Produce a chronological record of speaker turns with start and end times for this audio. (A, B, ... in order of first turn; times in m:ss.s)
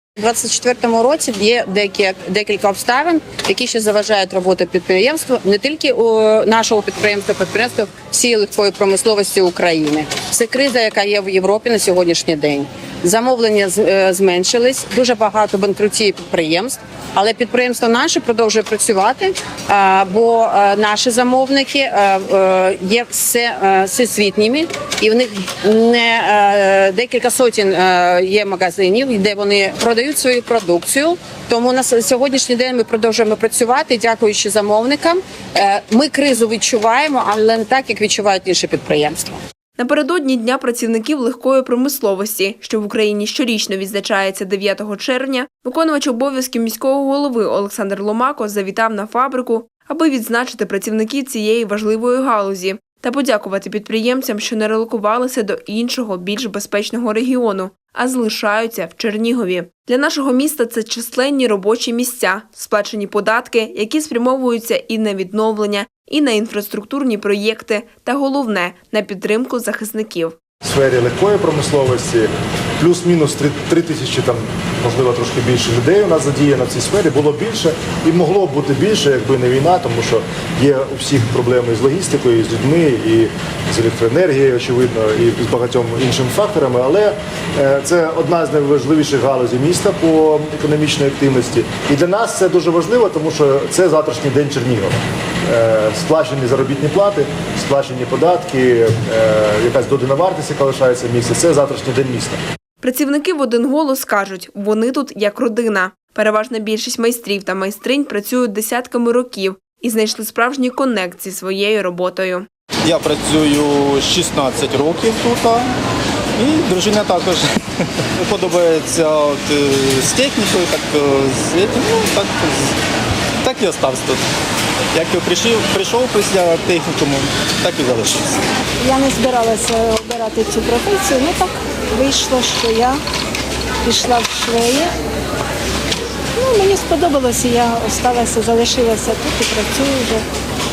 0:00.2-0:39.4 A
0:39.8-1:10.4 B
1:10.6-1:42.4 C
1:42.8-1:52.5 B
1:52.8-1:55.7 D
1:56.4-1:57.6 D
1:58.2-2:02.7 D
2:03.4-2:04.2 D
2:04.9-2:08.4 D
2:08.8-2:13.0 E
2:13.8-2:14.9 E
2:16.4-2:20.2 E